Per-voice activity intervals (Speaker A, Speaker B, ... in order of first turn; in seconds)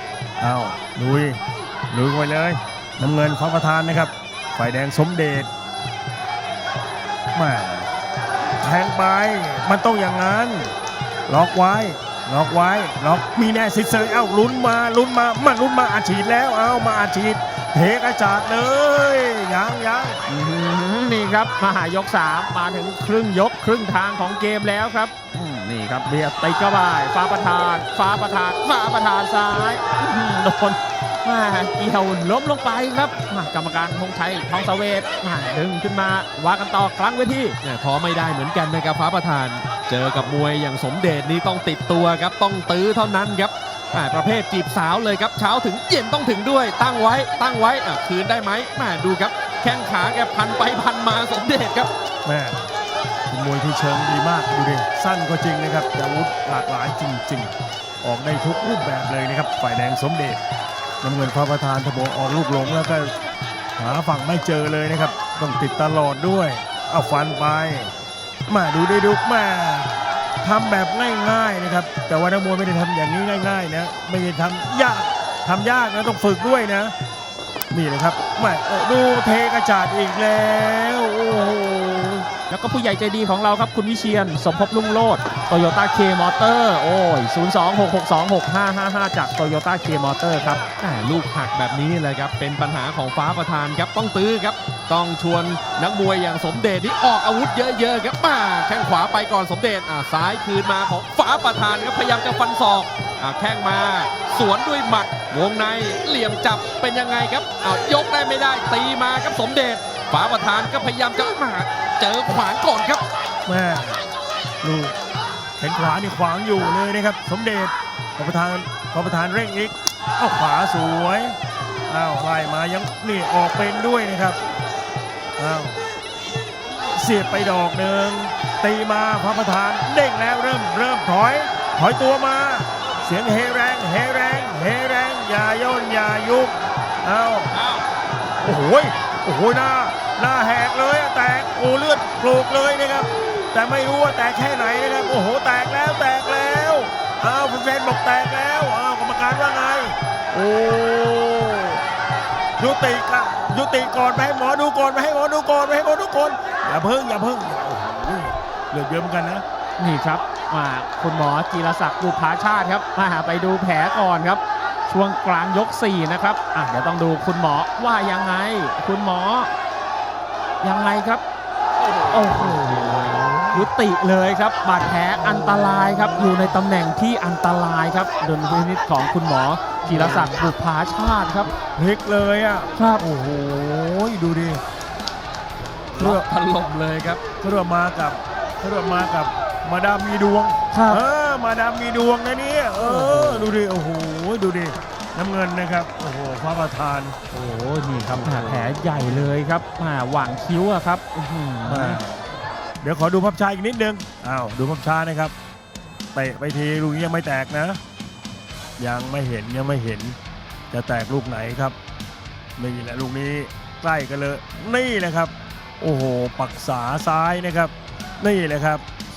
Speaker A: 0.4-5.5, 7.3-7.9, 8.6-10.7, 11.3-20.2, 52.2-52.6, 53.3-60.4, 61.0-63.1, 63.8-67.9, 68.5-69.9, 70.4-76.9, 77.7-82.3, 113.5-114.0, 114.6-114.9, 115.6-121.3, 121.9-124.4, 125.4-125.8, 126.9-136.5, 137.0-137.5, 138.4-151.8, 152.6-159.4, 172.4-173.7, 179.9-180.4, 181.7-184.6, 187.4-197.2, 198.0-199.1, 201.6-202.2, 202.8-205.3, 206.1-207.8, 208.8-210.2, 210.7-211.8, 212.6-218.8
Speaker B: 20.3-37.6, 82.5-90.7, 159.8-169.5, 170.6-171.2, 172.1-181.5, 182.8-183.1, 190.7-191.0, 192.8-193.5, 197.3-202.0
Speaker C: 37.6-51.9, 90.7-113.0, 137.5-137.8, 171.9-173.2, 185.9-187.2